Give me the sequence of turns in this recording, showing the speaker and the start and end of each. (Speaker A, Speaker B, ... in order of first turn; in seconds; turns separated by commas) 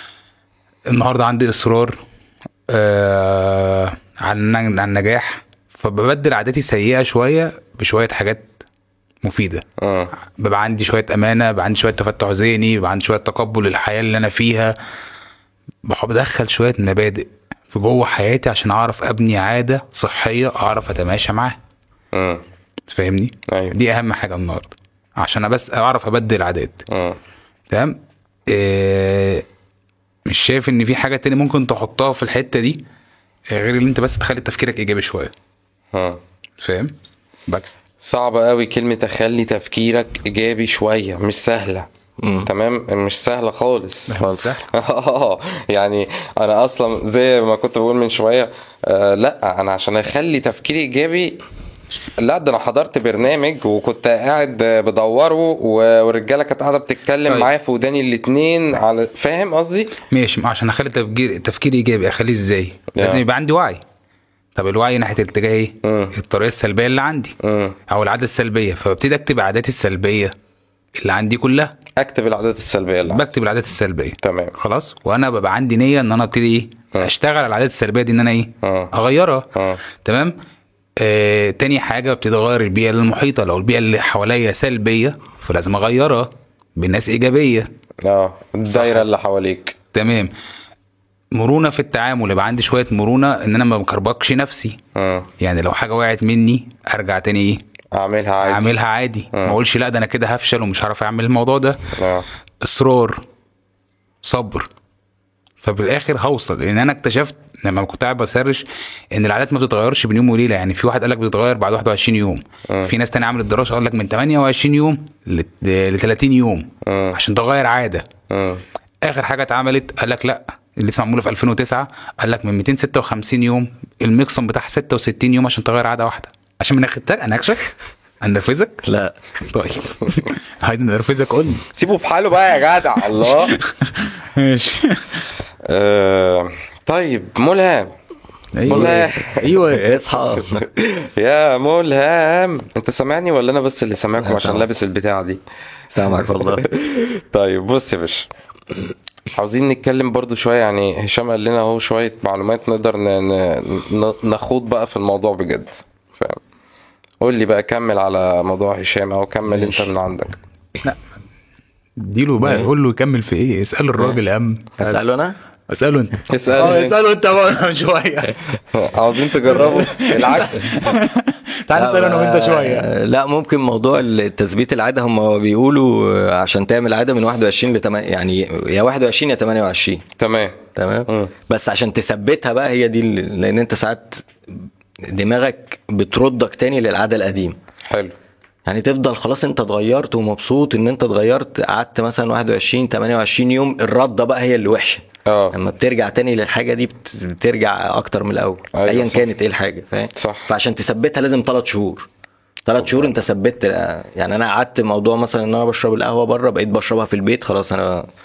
Speaker A: 0.9-2.0, Speaker A: 2.7-8.5, Speaker A: 9.2-9.6, Speaker B: 9.8-10.1, Speaker A: 10.4-14.7, Speaker A: 15.8-21.6, Speaker B: 22.1-22.4, Speaker A: 22.9-26.8, Speaker B: 23.5-23.8, Speaker B: 26.9-27.2, Speaker A: 27.7-29.4, Speaker A: 30.3-32.8, Speaker A: 33.5-35.3, Speaker B: 35.9-36.2, Speaker A: 36.6-36.9, Speaker B: 38.0-41.9, Speaker C: 42.2-42.5, Speaker B: 42.5-51.4, Speaker A: 44.1-44.6, Speaker C: 44.2-44.6, Speaker B: 52.2-59.9, Speaker A: 60.1-63.8, Speaker B: 63.0-63.2, Speaker A: 64.6-67.3, Speaker B: 65.8-66.1, Speaker B: 67.4-67.8, Speaker A: 67.9-70.3, Speaker A: 71.0-71.7, Speaker B: 72.0-73.2, Speaker A: 73.1-79.5, Speaker B: 74.2-74.5, Speaker B: 78.6-78.9, Speaker B: 79.5-79.8, Speaker A: 80.0-80.3, Speaker A: 81.0-87.7, Speaker B: 88.0-89.8, Speaker A: 88.7-89.0, Speaker A: 89.9-90.3, Speaker A: 91.3-94.8, Speaker B: 95.0-95.3, Speaker A: 95.4-97.6, Speaker B: 97.9-98.7, Speaker A: 98.4-101.8, Speaker B: 102.0-102.3, Speaker A: 102.6-103.2, Speaker A: 104.2-104.7, Speaker A: 105.6-118.1, Speaker B: 116.8-117.2, Speaker B: 118.3-118.6, Speaker A: 119.0-128.8, Speaker C: 128.9-129.2, Speaker A: 129.5-131.7, Speaker B: 131.7-133.6, Speaker A: 133.6-135.2, Speaker B: 135.7-137.9, Speaker A: 138.6-139.9, Speaker C: 138.7-140.7, Speaker B: 138.7-139.6, Speaker B: 140.4-145.4, Speaker C: 144.2-144.7, Speaker C: 145.9-146.7, Speaker B: 146.1-148.3, Speaker B: 149.3-156.4, Speaker B: 157.2-160.4, Speaker C: 159.5-159.9, Speaker A: 162.0-165.0, Speaker C: 162.4-162.7, Speaker C: 164.8-165.4, Speaker A: 165.7-168.4, Speaker B: 166.3-167.0, Speaker B: 168.7-170.8, Speaker A: 169.4-172.9, Speaker C: 169.6-169.8, Speaker C: 171.7-180.1, Speaker B: 180.2-181.3, Speaker C: 180.8-187.6, Speaker B: 187.9-188.1, Speaker C: 188.7-202.1, Speaker B: 195.3-195.6, Speaker B: 198.7-199.3, Speaker B: 200.2-200.5, Speaker C: 202.7-208.1